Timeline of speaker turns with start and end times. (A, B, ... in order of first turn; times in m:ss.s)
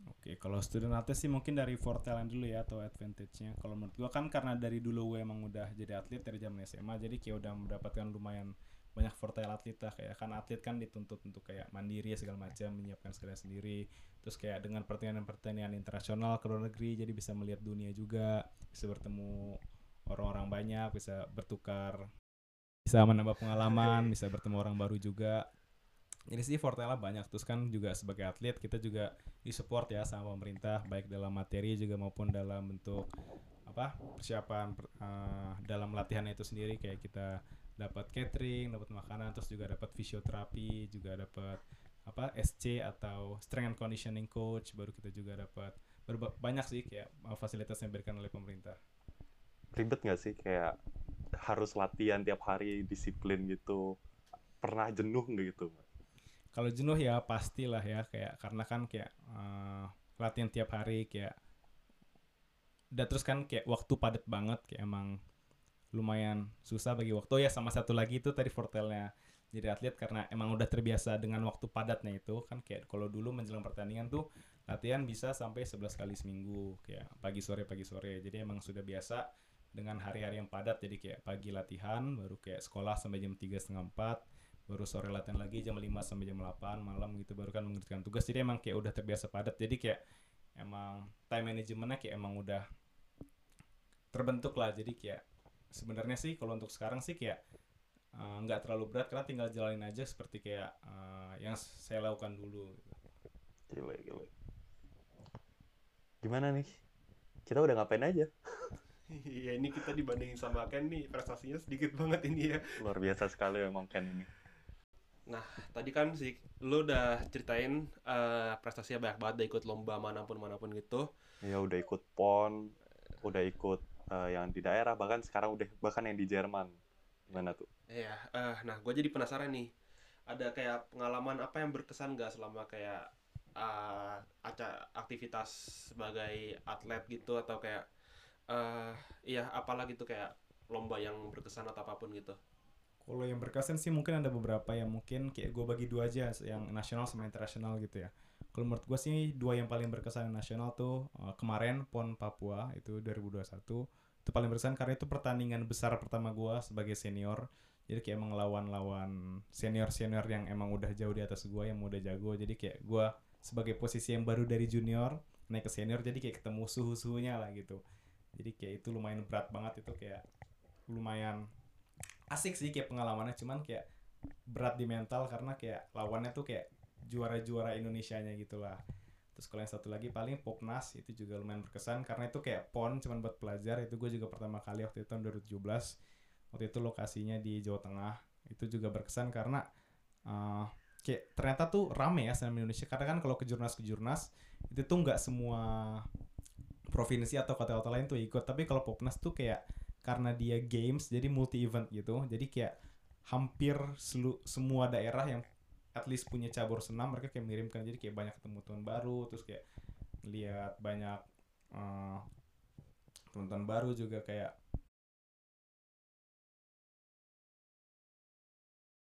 0:00.1-0:22.1 A
0:22.8-0:25.5 A
0:26.3-0:33.1 A
0:33.7-0:48.8 A
0:49.7-0:50.8 B
0:51.4-0:54.0 B
0:54.6-0:55.8 B
0:56.5-1:01.3 A
1:02.9-1:05.2 A
1:05.9-1:30.0 A
1:30.6-1:32.6 A
1:34.1-1:37.4 A
1:38.1-1:43.0 A
1:43.7-1:44.3 B
1:46.2-1:46.8 B
1:47.5-1:48.7 B
1:49.1-1:52.8 C
1:52.8-1:54.3 B
1:55.3-2:01.1 C
2:01.4-2:06.8 B
2:07.3-2:07.7 B
2:07.9-2:09.7 C
2:10.3-2:17.9 C
2:18.5-2:22.4 C
2:23.0-2:47.8 A
2:48.4-2:50.2 A
2:50.9-2:51.5 A
2:52.3-2:53.8 A
2:54.5-2:58.8 A
2:59.4-3:06.0 A
3:06.5-3:09.6 A
3:10.3-3:16.1 A
3:16.9-3:22.7 A
3:23.3-3:29.6 A
3:30.2-3:31.2 A
3:31.7-3:32.2 A
3:33.3-3:34.6 A